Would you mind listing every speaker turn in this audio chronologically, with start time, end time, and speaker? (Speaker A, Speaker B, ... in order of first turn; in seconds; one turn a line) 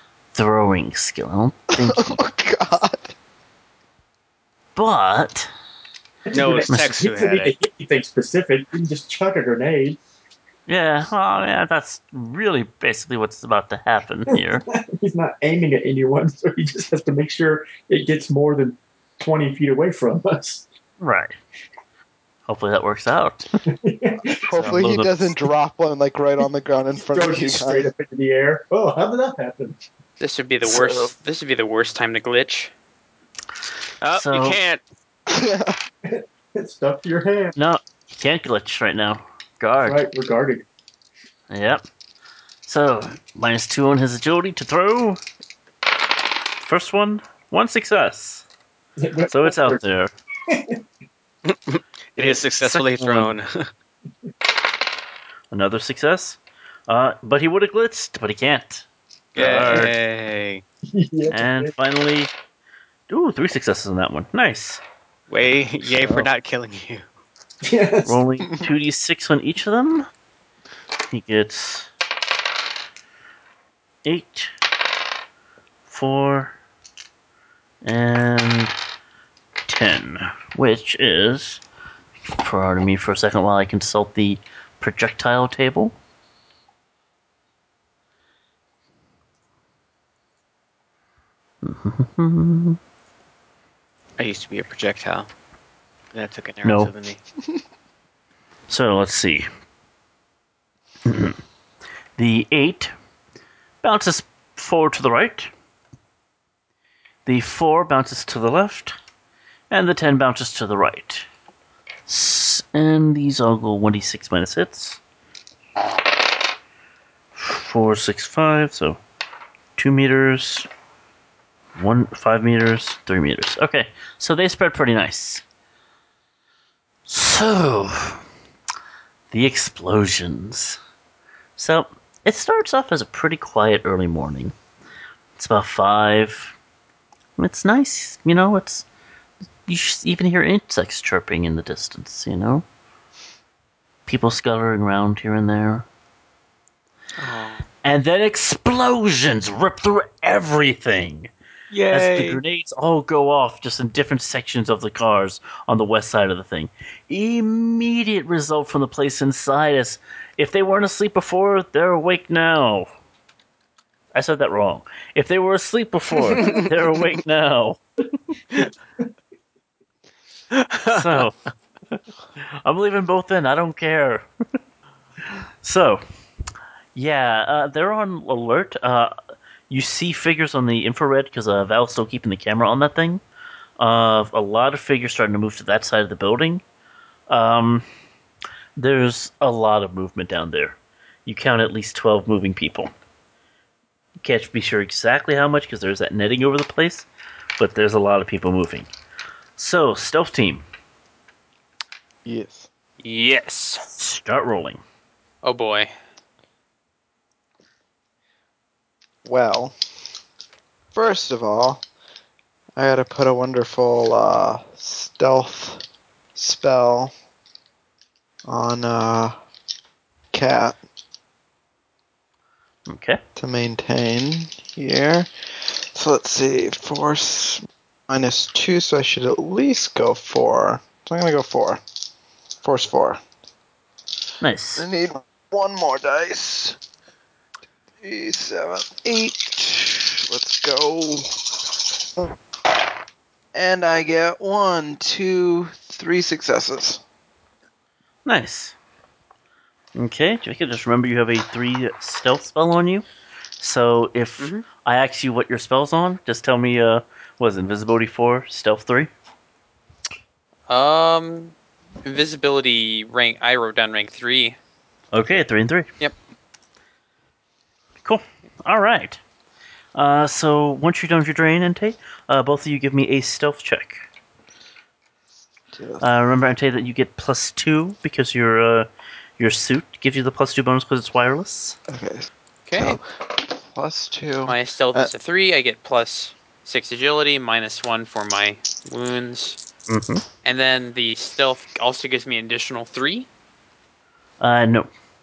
Speaker A: 0.3-2.2
Speaker B: 1.7-3.1
Speaker A: 4.8-5.5
Speaker C: 6.3-10.0
Speaker D: 6.3-7.5
Speaker A: 10.7-14.6
Speaker C: 14.3-20.7
Speaker A: 21.0-21.4
Speaker A: 22.5-23.5
Speaker C: 23.7-24.5
Speaker B: 24.5-27.9
Speaker A: 24.5-25.4
Speaker C: 27.1-29.8
Speaker E: 30.2-32.7
Speaker D: 34.0-34.8
Speaker A: 34.1-34.6
Speaker B: 35.3-35.8
Speaker C: 36.0-37.5
Speaker A: 37.6-40.0
Speaker C: 39.8-40.6
Speaker A: 41.5-41.8
Speaker A: 42.7-45.2
Speaker A: 46.6-48.4
Speaker C: 49.0-49.8
Speaker A: 49.3-50.1
Speaker C: 50.5-50.8
Speaker D: 51.5-53.7
Speaker A: 52.2-53.4
Speaker A: 55.5-58.9
Speaker D: 59.4-60.6
Speaker A: 59.4-59.9
Speaker C: 60.9-61.7
Speaker A: 61.3-62.3
Speaker A: 63.1-64.8
Speaker D: 65.3-67.0
Speaker A: 65.8-66.3
Speaker C: 67.6-68.1
Speaker A: 68.0-70.1
Speaker A: 71.1-71.9
Speaker A: 74.0-74.5
Speaker A: 75.9-76.6
Speaker A: 77.8-78.7
Speaker A: 79.7-81.6
Speaker A: 82.4-86.0
Speaker A: 91.6-92.8
Speaker D: 94.2-95.3
Speaker D: 96.1-97.2
Speaker A: 96.6-96.9
Speaker A: 98.7-99.5
Speaker A: 101.0-101.4
Speaker A: 102.2-102.9
Speaker A: 103.8-105.5
Speaker A: 107.3-109.0
Speaker A: 109.7-111.3
Speaker A: 112.1-115.0
Speaker A: 117.3-119.0
Speaker A: 119.8-120.7
Speaker A: 121.8-125.4
Speaker A: 127.1-128.2
Speaker A: 129.3-130.8
Speaker A: 131.6-134.5
Speaker A: 135.4-136.6
Speaker A: 137.4-138.8
Speaker A: 139.7-142.7
Speaker A: 144.1-145.9
Speaker D: 147.2-147.7
Speaker A: 147.8-151.3
Speaker D: 151.7-152.4
Speaker A: 151.9-162.9
Speaker A: 164.1-167.8
Speaker D: 166.4-166.6
Speaker D: 170.5-171.3
Speaker A: 170.9-171.3
Speaker A: 172.6-174.3
Speaker A: 175.6-176.0
Speaker A: 176.9-179.2
Speaker A: 179.7-183.2
Speaker A: 183.8-186.6
Speaker A: 187.3-187.8
Speaker A: 188.8-192.9
Speaker A: 194.2-197.1
Speaker A: 197.6-198.9
Speaker A: 199.6-200.7
Speaker B: 202.2-202.7
Speaker E: 203.0-203.9
Speaker A: 204.0-204.8
Speaker E: 205.4-205.9
Speaker B: 209.2-209.8
Speaker B: 210.9-211.8
Speaker B: 212.8-215.8
Speaker B: 216.3-217.1
Speaker B: 218.5-219.4
Speaker B: 220.3-220.8
Speaker A: 222.9-223.2
Speaker B: 223.4-231.8
Speaker B: 232.6-233.2
Speaker A: 234.4-234.9
Speaker B: 234.8-236.8
Speaker B: 238.0-241.6
Speaker B: 243.5-247.0
Speaker A: 248.2-248.8
Speaker A: 249.9-253.1
Speaker A: 253.6-259.1
Speaker E: 254.4-254.7
Speaker E: 260.7-264.6
Speaker A: 265.1-265.9
Speaker A: 268.1-269.2
Speaker A: 269.9-274.0
Speaker B: 275.7-276.0
Speaker A: 276.0-278.9
Speaker A: 279.4-281.8
Speaker B: 281.9-285.1
Speaker E: 282.7-283.0
Speaker E: 284.5-289.6
Speaker A: 289.9-290.2
Speaker E: 290.4-293.3
Speaker A: 294.4-294.9